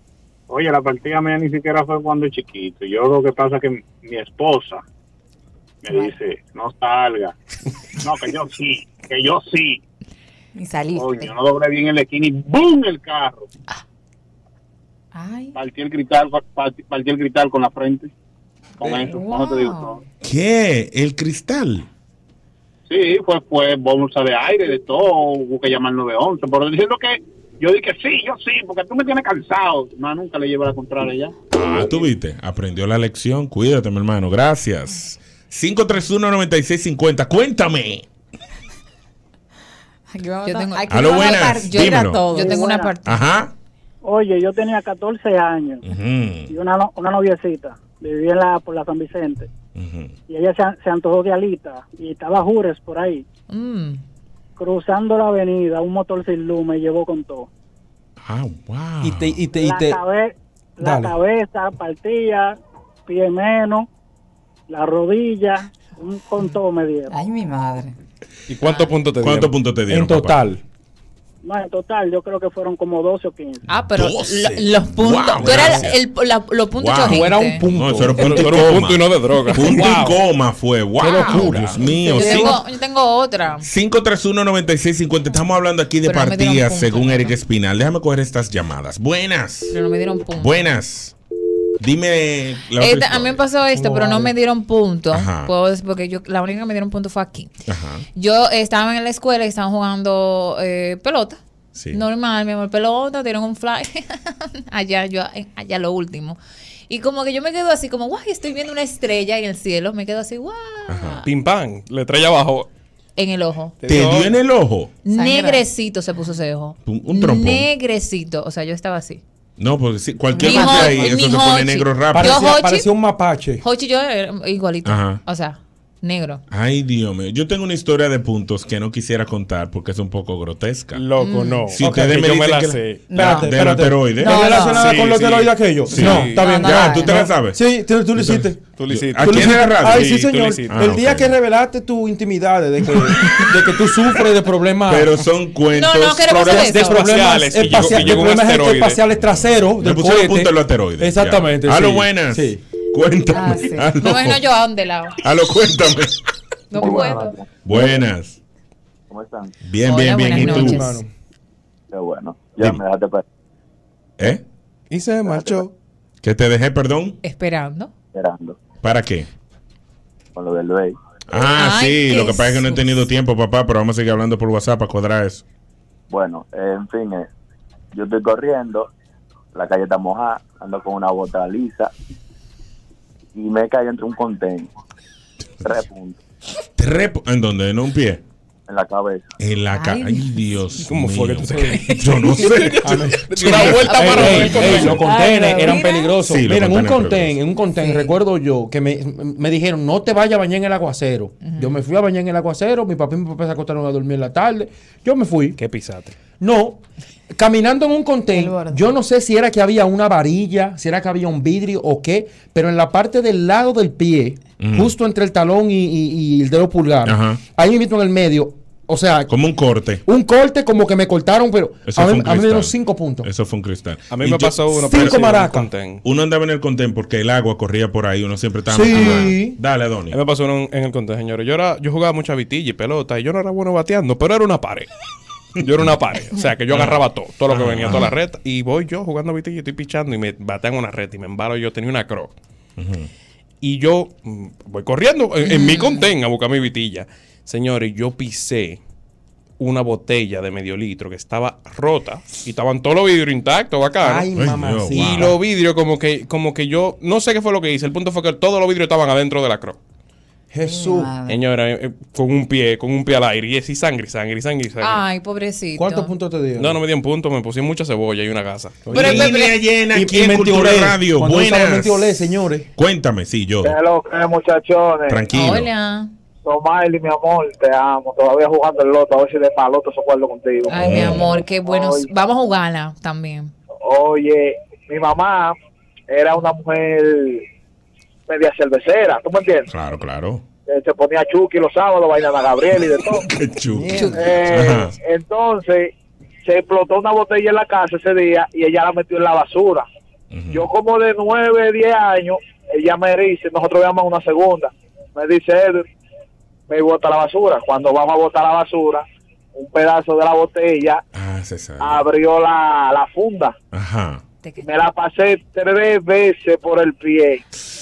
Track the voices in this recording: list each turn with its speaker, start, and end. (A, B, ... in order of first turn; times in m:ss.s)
0:00.5-0:04.8 A
0:05.8-0:07.3 A
0:08.0-0:09.8 A
0:10.6-0:11.3 B
0:11.0-0:13.5 A
0:15.1-0:15.6 B
0:15.6-0:18.1 A
0:18.8-0:20.0 A
0:18.8-0:20.0 B
0:20.2-0:21.9 C
0:22.9-0:31.3 A
0:31.5-0:38.1 C
0:40.1-0:42.9 B
0:40.4-0:43.2 D
0:40.9-0:42.2 C
0:42.5-0:42.8 E
0:43.1-0:43.5 C
0:44.0-0:45.9 E
0:45.9-0:46.5 C
0:46.5-0:49.5 E
0:49.8-0:50.1 C
0:50.3-0:53.2 E
0:53.5-0:54.0 D
0:54.6-0:57.5 E
0:58.2-0:59.4 C
0:59.0-1:00.0 F
0:59.6-1:03.9 E
1:00.8-1:01.2 F
1:04.7-1:07.1 E
1:07.1-1:07.9 B
1:08.5-1:09.5 G
1:09.2-1:10.4 C
1:09.9-1:10.6 F
1:11.4-1:13.6 E
1:13.7-1:17.6 D
1:13.9-1:16.0 C
1:15.4-1:15.8 F
1:16.8-1:22.6 C
1:17.0-1:18.8 F
1:18.1-1:20.2 G
1:19.7-1:20.1 F
1:21.0-1:22.1 F
1:21.1-1:21.5 D
1:22.0-1:23.6 D
1:23.6-1:29.8 C
1:26.0-1:27.4 D
1:29.7-1:30.7 D
1:30.4-1:31.2 C
1:31.8-1:33.4 C
1:32.8-1:37.5 D
1:33.7-1:34.3 F
1:35.1-1:35.5 C
1:37.7-1:38.1 C
1:38.2-1:41.4 D
1:41.8-1:42.0 C
1:41.9-1:46.4 D
1:46.9-1:51.3 D
1:50.9-1:51.2 C
1:51.2-1:52.7 G
1:53.2-1:53.8 D
1:53.8-1:54.4 G
1:53.9-1:54.9 C
1:55.0-1:59.2 D
1:55.1-1:55.6 B
1:56.9-1:57.7 C
1:59.6-2:02.5 C
2:00.4-2:01.2 B
2:00.4-2:02.9 D
2:02.1-2:03.6 F
2:03.6-2:06.4 D
2:04.8-2:05.2 C
2:06.5-2:11.0 C
2:10.9-2:13.1 G
2:11.2-2:11.7 D
2:11.8-2:14.4 C
2:11.8-2:12.2 F
2:13.1-2:15.0 B
2:13.1-2:25.2 F
2:14.4-2:14.7 D
2:14.7-2:16.6 G
2:15.9-2:17.6 C
2:16.3-2:17.1 B
2:18.2-2:21.3 C
2:18.8-2:21.0 G
2:24.9-2:26.6 C
2:25.7-2:27.1 D
2:26.4-2:32.6 F
2:26.4-2:29.0 G
2:27.7-2:28.3 C
2:29.8-2:34.4 C
2:33.3-2:33.9 B
2:34.0-2:35.2 D
2:35.2-2:36.2 C
2:36.7-2:37.3 D
2:36.8-2:37.2 B
2:36.8-2:37.5 H
2:37.6-2:38.4 C
2:39.1-2:39.5 H
2:39.6-2:40.8 C
2:39.8-2:41.0 D
2:40.3-2:41.1 F
2:41.9-2:43.2 H
2:44.9-2:45.7 G
2:45.3-2:45.6 H
2:46.2-2:47.2 C
2:47.2-2:47.9 D
2:48.1-2:48.6 H
2:48.8-2:49.3 C
2:50.4-2:51.0 H
2:51.3-2:55.4 C
2:51.6-2:52.8 D
2:56.1-2:57.3 H
2:57.9-2:58.9 H
2:59.5-3:01.9 H
3:03.3-3:04.7 H
3:05.6-3:06.2 H
3:06.8-3:08.2 C
3:08.7-3:09.3 H
3:09.4-3:15.0 C
3:09.7-3:10.3 B
3:10.8-3:15.0 G
3:12.8-3:25.6 F
3:13.7-3:14.8 D
3:14.8-3:16.2 B
3:16.2-3:17.4 C
3:17.8-3:18.1 B
3:25.6-3:26.2 G
3:26.4-3:26.8 F
3:27.3-3:39.3 F
3:28.3-3:28.9 B
3:34.6-3:34.9 C
3:37.1-3:37.4 C
3:39.3-3:40.0 C
3:40.0-3:43.3 F
3:41.9-3:45.3 C
3:44.1-3:46.0 G
3:44.8-3:45.7 F
3:46.0-3:50.2 C
3:48.7-3:49.6 F
3:50.1-3:54.9 G
3:55.6-4:02.3 G
3:56.7-3:58.1 C
4:02.8-4:03.1 C
4:03.6-4:08.8 G
4:05.4-4:06.1 D
4:09.6-4:14.3 G
4:14.0-4:15.4 F
4:14.4-4:15.3 C
4:14.9-4:19.8 G
4:20.5-4:21.1 F
4:20.6-4:21.4 B
4:21.3-4:25.0 G
4:24.8-4:26.1 D
4:25.8-4:26.8 F
4:26.6-4:28.9 G
4:28.9-4:29.4 F
4:28.9-4:33.8 C
4:28.9-4:29.5 D
4:29.9-4:32.7 F
4:33.6-4:35.2 I
4:35.1-4:35.7 C
4:35.3-4:36.1 D
4:36.4-4:41.1 I
4:40.7-4:43.5 D
4:40.8-4:41.3 C
4:41.6-4:42.1 I
4:43.8-4:45.6 I
4:46.1-4:47.4 I
4:48.3-4:49.7 I
4:49.7-4:50.4 C
4:50.7-4:53.3 I
4:53.0-4:55.0 C
4:53.7-4:54.3 F
4:53.9-4:54.2 D
4:54.2-4:55.9 I
4:56.4-4:59.9 I
5:00.3-5:00.7 C
5:00.5-5:05.8 I
5:06.7-5:11.0 I
5:11.1-5:12.1 C
5:11.8-5:13.6 I
5:13.7-5:14.2 C
5:14.6-5:17.4 I